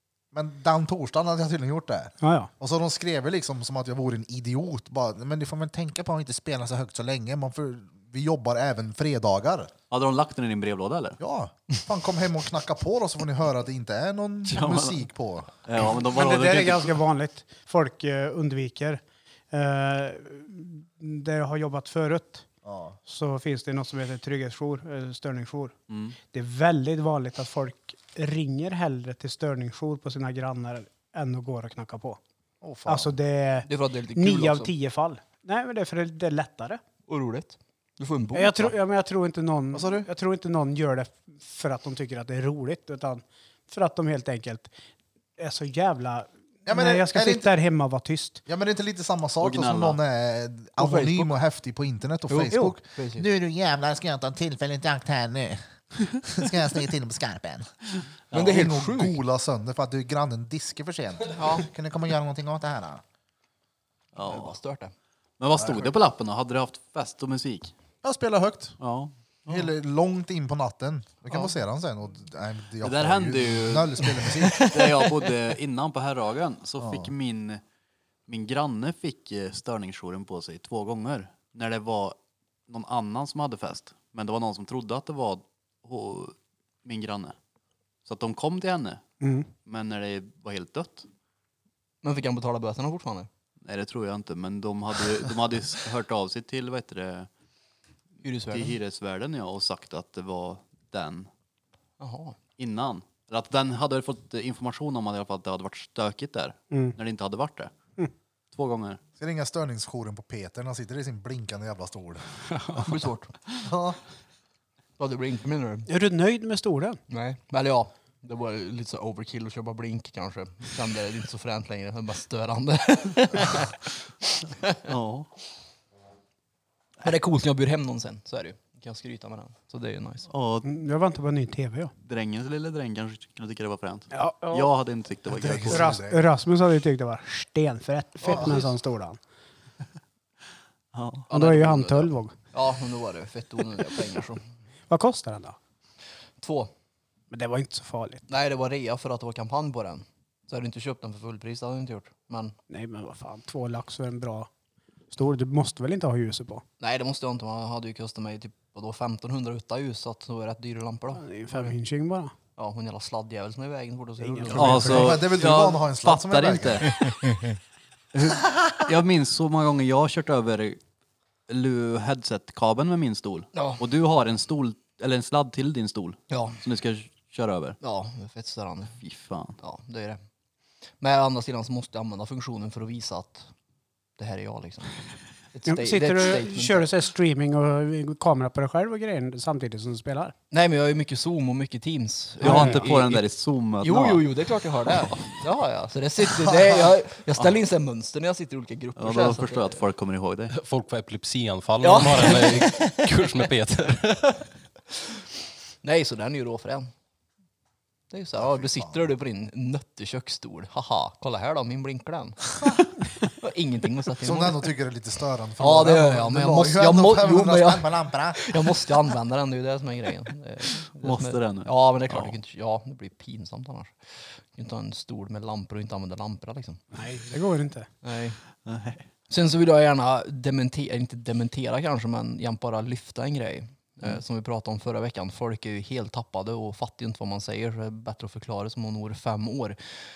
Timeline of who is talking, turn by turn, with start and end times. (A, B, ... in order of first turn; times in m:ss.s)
0:00.3-0:09.7 A
0:02.2-0:02.5 B
0:09.9-0:11.2 C
0:11.2-0:15.6 A
0:14.4-0:15.0 C
0:15.6-0:17.0 C
0:16.1-0:19.0 B
0:19.5-0:22.4 B
0:22.6-0:23.0 A
0:23.0-0:25.7 B
0:25.9-0:26.2 C
0:26.3-0:32.2 B
0:32.6-0:33.1 A
0:32.8-0:36.8 B
0:33.6-0:34.7 D
0:37.1-0:38.7 D
0:38.3-0:44.7 B
0:39.7-0:40.1 A
0:45.4-0:48.4 B
0:46.6-0:47.5 A
0:48.4-0:55.6 A
0:49.4-0:50.0 C
0:50.8-0:51.3 D
0:52.3-0:53.3 D
0:56.2-0:57.7 A
0:58.3-0:59.2 D
0:58.3-0:58.6 C
0:58.3-1:03.0 A
1:01.3-1:01.6 D
1:04.1-1:04.6 C
1:04.2-1:04.9 D
1:05.4-1:07.7 C
1:05.6-1:05.9 A
1:08.0-1:08.8 A
1:08.8-1:09.7 C
1:09.5-1:14.7 A
1:12.8-1:17.6 C
1:14.4-1:15.3 D
1:16.8-1:17.1 A
1:18.3-1:22.2 C
1:22.7-1:27.4 C
1:28.0-1:29.0 C
1:29.2-1:29.5 B
1:29.6-1:31.1 C
1:32.0-1:33.3 D
1:33.6-1:37.3 C
1:38.2-1:38.8 D
1:38.5-1:41.3 C
1:42.0-1:42.4 D
1:42.6-1:47.7 C
1:46.7-1:47.0 B
1:48.5-1:49.0 C
1:49.2-1:52.2 A
1:52.5-1:53.3 D
1:53.6-1:54.0 A
1:55.0-1:55.9 D
1:55.9-1:57.0 B
1:57.1-2:03.8 D
2:04.8-2:05.3 C
2:07.0-2:10.3 D
2:10.3-2:10.7 C
2:10.6-2:11.9 B
2:12.0-2:15.9 C
2:14.1-2:14.7 B
2:15.3-2:16.2 A
2:15.6-2:19.2 B
2:18.3-2:18.6 C
2:20.9-2:21.3 C
2:21.3-2:24.4 D
2:21.3-2:22.3 B
2:24.9-2:25.6 B
2:26.4-2:26.7 D
2:27.3-2:28.2 B
2:28.3-2:32.5 D
2:32.7-2:34.5 B
2:35.1-2:36.6 B
2:36.8-2:41.7 D
2:41.2-2:42.3 B
2:42.6-2:45.2 D
2:44.2-2:44.8 B
2:44.5-2:47.1 C
2:44.5-2:46.9 A
2:47.0-2:47.5 D
2:48.1-2:50.8 C
2:51.5-2:57.8 C
2:53.5-2:53.8 D
2:56.3-2:56.6 D
2:57.8-2:59.0 D
2:59.0-2:59.6 C
2:59.6-3:00.2 D
3:01.0-3:03.5 D
3:04.2-3:05.0 D
3:05.5-3:06.9 D
3:05.7-3:10.3 B
3:10.5-3:13.2 D
3:12.4-3:14.2 C
3:12.4-3:12.8 B
3:13.8-3:19.8 D
3:16.5-3:16.8 A
3:19.0-3:20.5 C
3:20.5-3:24.4 E
3:21.8-3:23.1 D
3:25.8-3:26.9 D
3:28.1-3:32.7 D
3:28.4-3:29.1 A
3:33.4-3:34.7 D
3:34.2-3:38.6 A
3:35.6-3:46.8 D
3:41.0-3:42.3 C
3:46.9-3:47.9 B
3:48.0-3:48.4 D
3:48.6-3:49.0 C
3:49.3-3:59.8 D